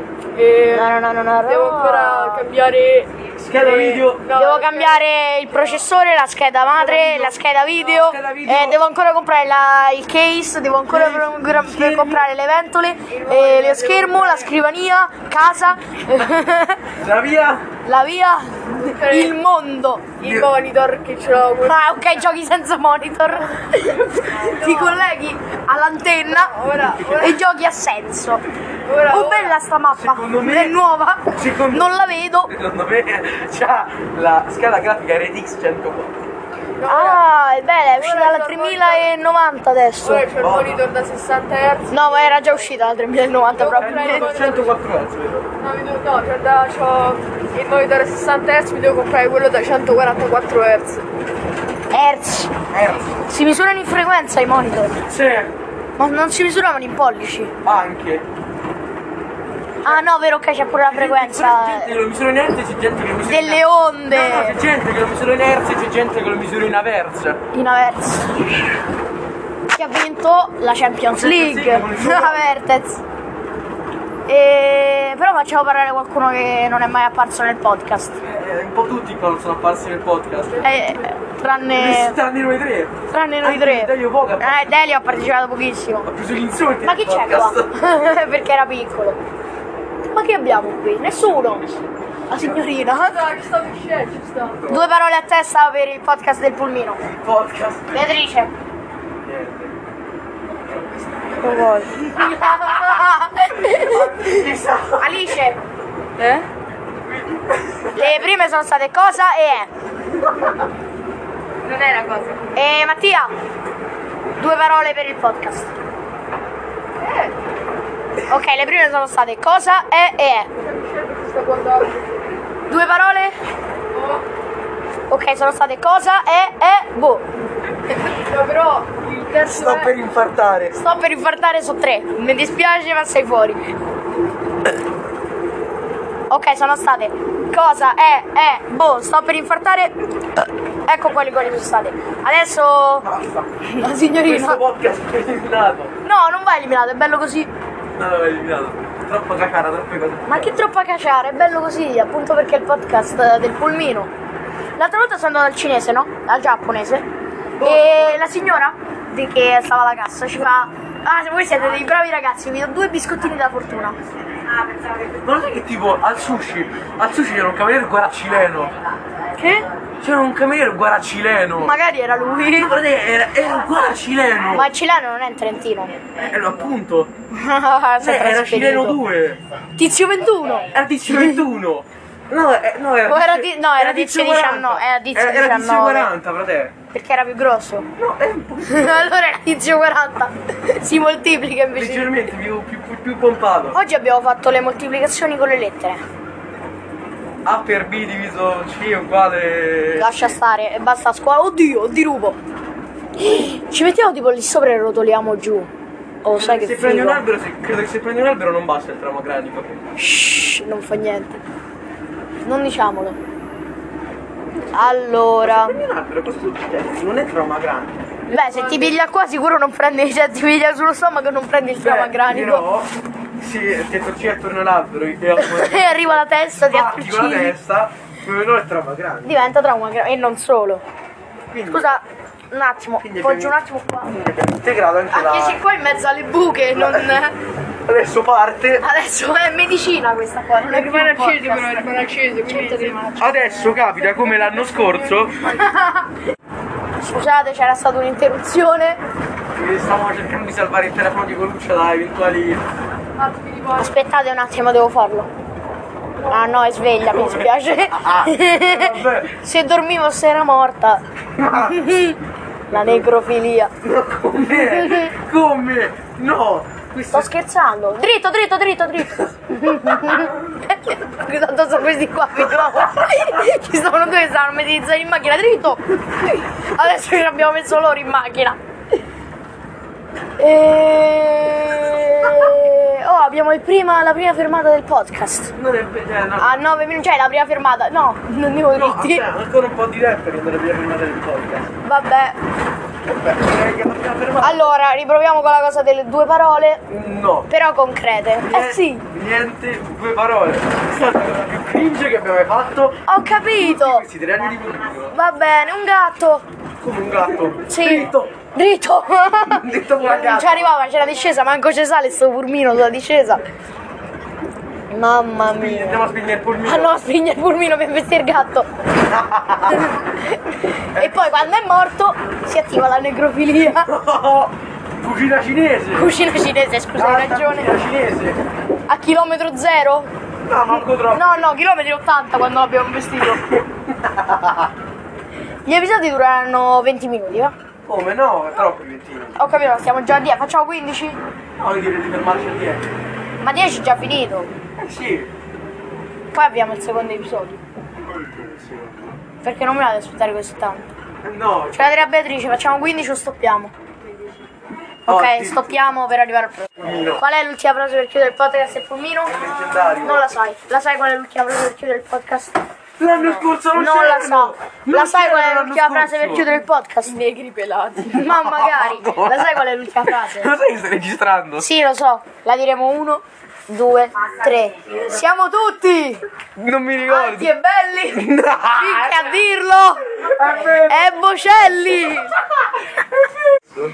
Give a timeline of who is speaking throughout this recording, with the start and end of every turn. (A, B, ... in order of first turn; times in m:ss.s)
0:00.3-0:05.0 A
0:00.7-0:02.5 B
0:03.4-0:04.3 C
0:04.3-0:16.9 B
0:06.7-0:08.8 C
0:10.9-0:12.2 C
0:13.1-0:14.5 A
0:17.0-0:17.6 C
0:17.8-0:20.1 B
0:18.7-0:19.4 A
0:20.2-0:21.9 A
0:20.2-0:20.5 C
0:21.6-0:26.5 B
0:24.2-0:25.0 A
0:26.3-0:27.4 A
0:27.0-0:28.4 B
0:28.8-0:29.6 A
0:29.1-0:32.5 B
0:29.9-0:30.8 C
0:31.3-0:32.0 C
0:32.5-0:36.2 C
0:36.8-0:37.2 A
0:36.8-0:40.3 B
0:37.9-0:39.1 A
0:40.0-0:42.5 A
0:40.3-0:40.8 C
0:41.9-0:44.3 B
0:43.5-0:44.7 A
0:43.7-0:45.5 C
0:45.6-0:51.0 A
0:51.9-0:52.5 B
0:52.7-0:53.1 C
0:53.3-0:55.0 B
0:55.1-0:55.5 C
0:56.0-0:57.5 B
0:57.6-0:58.2 C
0:59.8-1:02.0 B
1:00.8-1:07.4 C
1:03.2-1:04.6 B
1:07.5-1:08.6 B
1:09.7-1:13.0 B
1:11.1-1:12.4 C
1:14.3-1:18.2 B
1:18.2-1:20.7 C
1:20.6-1:22.2 B
1:21.7-1:24.7 C
1:23.1-1:26.1 B
1:26.0-1:27.7 C
1:26.8-1:29.2 B
1:30.1-1:33.2 B
1:33.0-1:34.6 A
1:34.6-1:34.9 C
1:34.6-1:37.0 B
1:37.0-1:38.0 C
1:37.9-1:38.5 B
1:39.2-1:39.7 C
1:40.7-1:42.1 A
1:41.4-1:44.3 B
1:43.7-1:45.4 C
1:45.0-1:45.6 B
1:46.2-1:46.5 A
1:47.0-1:48.2 C
1:47.9-1:49.7 B
1:51.6-1:52.4 A
1:52.5-1:53.3 B
1:54.4-1:55.7 B
1:57.0-1:57.4 A
1:58.3-2:00.5 B
2:00.6-2:02.3 A
2:02.7-2:03.4 B
2:03.9-2:04.2 A
2:05.1-2:07.2 B
2:08.0-2:09.9 A
2:09.5-2:10.8 C
2:10.7-2:13.7 B
2:16.3-2:23.1 B
2:23.0-2:25.9 C
2:23.7-2:24.6 B
2:26.0-2:27.5 B
2:28.0-2:30.6 C
2:30.2-2:34.1 B
2:34.8-2:37.0 B
2:37.6-2:38.2 C
2:37.6-2:44.0 B
2:44.8-2:48.7 C
2:49.4-2:49.6 A
2:50.0-2:51.8 C
2:51.6-2:52.8 B
2:52.4-2:54.7 C
2:54.5-2:56.0 B
2:56.2-2:57.1 C
2:57.3-2:59.0 B
2:58.0-2:59.4 C
2:59.8-3:01.4 B
3:00.7-3:06.7 C
3:03.0-3:06.1 B
3:06.9-3:07.9 B
3:08.0-3:09.1 C
3:08.6-3:12.1 B
3:11.7-3:13.8 C
3:13.7-3:16.0 B
3:17.4-3:20.3 C
3:20.0-3:22.4 B
3:23.2-3:25.7 B
3:26.2-3:27.2 B
3:26.3-3:29.8 C
3:30.0-3:31.4 B
3:32.4-3:33.2 B
3:34.7-3:35.8 B
3:35.4-3:38.0 C
3:38.3-3:39.0 A
3:38.3-3:42.6 B
3:41.8-3:49.4 C
3:45.4-3:47.6 B
3:49.2-3:50.8 B
3:51.5-3:52.0 C
3:51.7-3:54.1 B
3:53.0-3:55.6 C
3:55.1-3:57.4 B
3:56.7-3:57.2 C
3:57.8-3:58.8 C
3:58.8-4:03.8 B
4:00.6-4:03.0 A
4:03.2-4:05.6 C
4:04.0-4:05.7 A
4:05.4-4:06.1 B
4:07.0-4:09.0 B
4:09.5-4:12.6 C
4:13.2-4:13.9 A
4:13.7-4:15.3 B
4:16.2-4:22.2 B
4:17.1-4:19.3 C
4:21.4-4:21.8 C
4:22.7-4:23.1 C
4:22.7-4:23.7 B
4:23.8-4:27.3 C
4:24.4-4:25.1 B
4:27.1-4:38.6 B
4:40.4-4:45.5 B
4:45.6-4:46.6 C
4:46.4-4:49.2 B
4:48.7-4:51.7 C
4:51.8-4:52.4 B
4:53.0-4:54.7 C
4:54.4-4:56.8 B
4:56.9-4:57.5 C
4:57.5-4:59.0 B
4:58.5-5:05.2 C
5:03.1-5:04.0 B
5:05.1-5:06.4 B
5:06.8-5:08.3 C
5:07.7-5:13.4 B
5:09.4-5:10.7 C
5:14.9-5:16.1 B
5:15.5-5:16.9 C
5:16.6-5:18.7 B
5:19.1-5:19.9 C
5:19.8-5:23.9 B
5:20.9-5:21.3 C
5:23.7-5:26.1 C
5:26.0-5:27.7 B
5:27.0-5:28.4 C
5:28.9-5:30.1 B
5:30.4-5:31.4 C
5:30.7-5:33.6 B
5:33.9-5:34.7 C
5:35.6-5:37.5 B
5:37.8-5:39.4 C
5:39.4-5:41.2 B
5:41.6-5:42.9 C
5:43.4-5:44.5 B
5:44.8-5:45.3 C
5:46.3-5:47.6 B
5:48.2-5:49.2 C
5:49.4-5:50.8 B
5:51.2-5:52.0 C
5:51.7-5:53.7 B
5:55.1-5:55.8 C
5:55.1-5:59.4 B
5:56.8-5:57.2 C
5:59.3-6:00.3 C
6:00.0-6:02.6 B
6:03.0-6:06.5 C
6:03.7-6:07.2 B
6:07.0-6:08.3 A
6:08.0-6:11.7 C
6:08.1-6:10.5 B
6:11.6-6:16.2 B
6:16.6-6:17.5 C
6:17.0-6:18.2 B
6:18.1-6:19.4 C
6:18.8-6:22.4 B
6:20.2-6:21.1 C